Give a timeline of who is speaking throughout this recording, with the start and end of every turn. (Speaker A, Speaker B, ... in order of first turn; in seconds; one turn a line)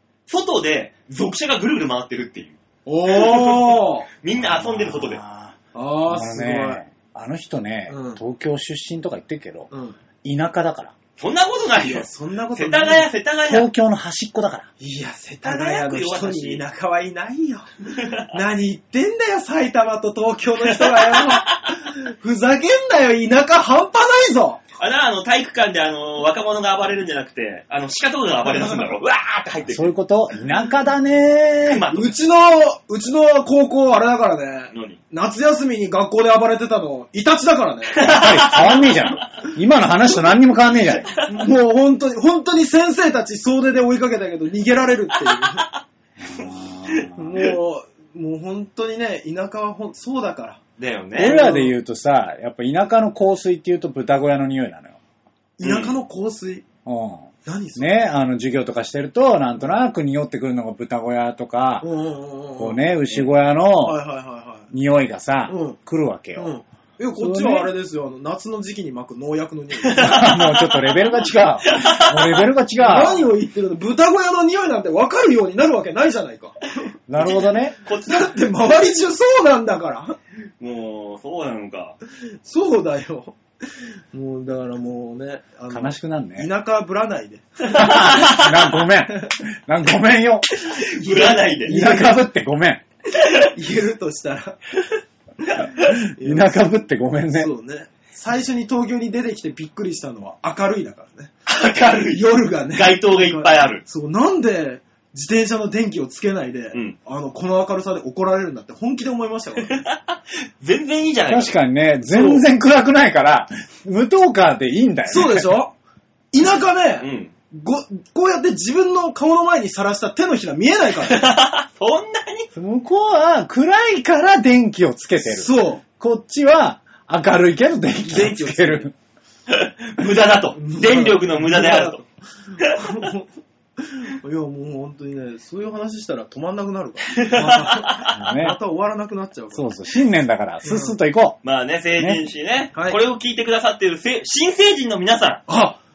Speaker A: 0.3-2.5
Speaker B: 2.9-4.1
Speaker A: 3.1-5.2
Speaker C: 4.4-9.7
Speaker B: 5.7-6.8
Speaker B: 7.9-8.2
Speaker B: 9.7-10.0
Speaker C: 10.2-10.9
Speaker A: 11.2-13.7
Speaker B: 11.7-13.1
Speaker C: 13.5-14.7
Speaker B: 14.8-17.7
Speaker A: 15.4-16.6
Speaker A: 17.9-18.3
Speaker B: 18.3-24.6
Speaker A: 20.6-21.7
Speaker A: 24.8-29.9
Speaker B: 28.5-28.9
Speaker C: 29.7-31.8
Speaker A: 31.6-32.1
Speaker B: 31.9-38.1
Speaker A: 34.7-35.0
Speaker A: 37.9-39.3
Speaker C: 38.1-41.2
Speaker B: 41.2-45.6
Speaker A: 45.3-45.8
Speaker C: 46.2-47.4
Speaker B: 47.1-50.6
Speaker A: 50.8-51.4
Speaker C: 51.2-55.0
Speaker B: 51.2-51.8
Speaker B: 55.6-56.6
Speaker A: 55.6-55.9
Speaker C: 56.9-61.9
Speaker B: 57.4-58.0
Speaker B: 61.8-64.7
Speaker C: 62.6-64.0
Speaker C: 64.7-66.5
Speaker B: 65.5-65.8
Speaker B: 66.3-70.3
Speaker C: 67.2-67.7
Speaker A: 69.8-71.0
Speaker C: 70.0-73.3
Speaker A: 71.6-72.5
Speaker B: 72.8-76.8
Speaker C: 77.1-77.8
Speaker A: 77.2-78.3
Speaker B: 78.0-80.2
Speaker A: 80.6-82.0
Speaker B: 82.4-83.3
Speaker B: 84.1-88.1
Speaker C: 85.7-86.5
Speaker C: 87.7-90.5
Speaker A: 87.7-88.8
Speaker A: 90.7-91.7
Speaker B: 90.8-92.2
Speaker C: 91.7-92.8
Speaker A: 93.1-93.5
Speaker B: 93.5-94.7
Speaker B: 95.4-96.7
Speaker C: 95.8-97.5
Speaker B: 97.3-101.3
Speaker A: 101.5-103.8
Speaker B: 102.1-109.8
Speaker A: 109.7-111.5
Speaker C: 111.3-115.6
Speaker B: 115.1-115.7
Speaker B: 116.3-121.3
Speaker A: 117.0-117.3
Speaker A: 121.1-122.5
Speaker C: 122.5-128.9
Speaker B: 125.2-125.8
Speaker B: 128.0-128.9
Speaker A: 129.5-132.0
Speaker B: 130.6-139.7
Speaker A: 132.6-133.0
Speaker A: 137.1-138.5
Speaker C: 138.1-138.6
Speaker C: 139.5-141.4
Speaker B: 140.6-141.0
Speaker A: 141.4-145.4
Speaker B: 145.5-145.8